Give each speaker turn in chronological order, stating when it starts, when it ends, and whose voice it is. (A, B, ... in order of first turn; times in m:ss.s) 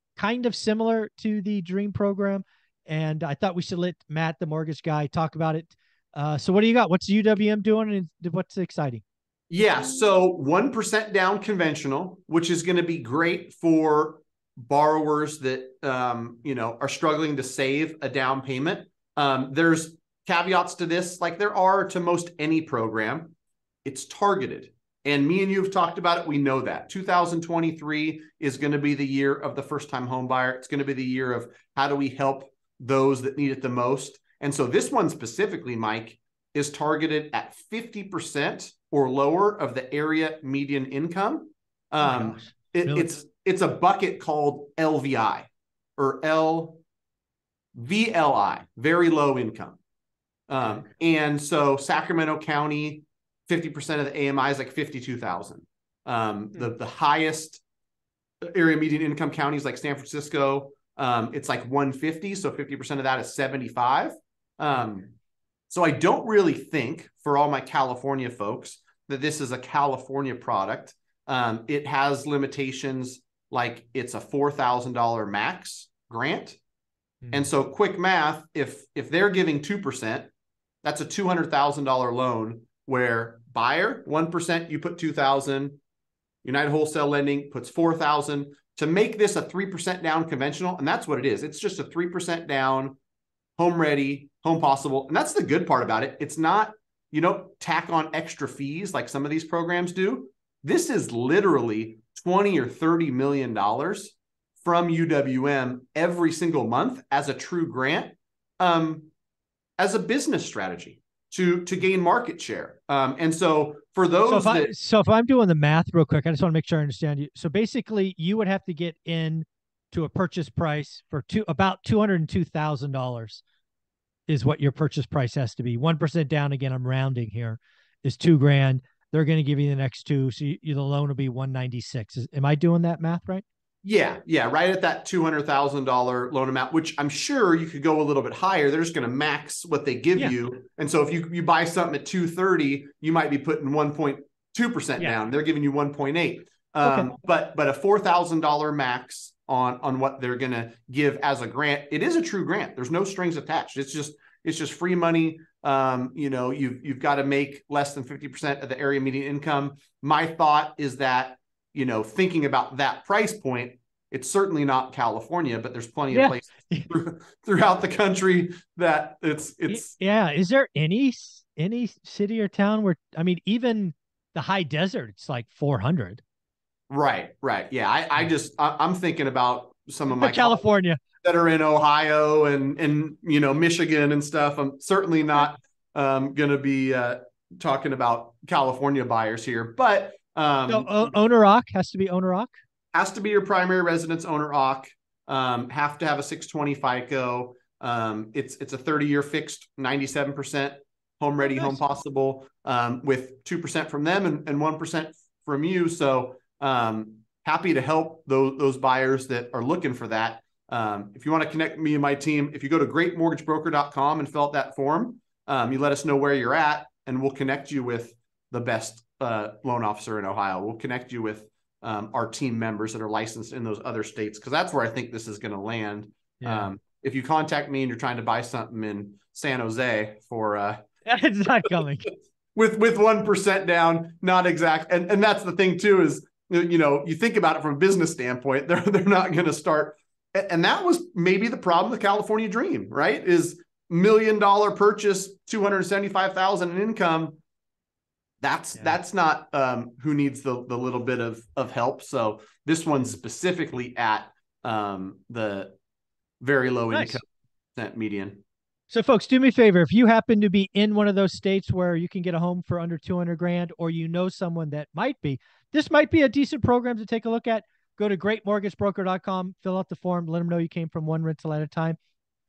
0:00.2-0:09.0 A
0:09.5-0:46.8 B
0:42.0-0:43.2 A
0:47.7-0:49.8 B
0:50.5-0:57.6 B
0:58.4-1:05.1 B
1:05.7-1:16.6 B
1:17.2-1:17.5 A
1:17.3-1:20.3 B
1:20.8-1:25.8 B
1:26.4-1:33.0 B
1:33.6-1:49.1 B
1:49.8-1:54.7 B
1:54.3-2:03.4 A
2:04.3-2:13.4 A
2:13.8-2:49.9 B
2:26.8-2:27.1 A
2:46.1-2:46.9 A
2:49.7-2:56.2 A
2:56.9-3:00.6 B
3:00.1-3:01.0 A
3:01.2-3:11.2 B
3:10.7-3:12.5 A
3:12.9-3:50.8 B
3:21.5-3:21.8 A
3:46.4-3:46.7 A
3:51.0-3:52.1 A
3:52.5-4:07.4 B
4:08.4-4:15.8 B
4:16.4-4:17.2 B
4:16.9-4:17.2 A
4:17.8-4:18.4 B
4:18.9-4:32.0 A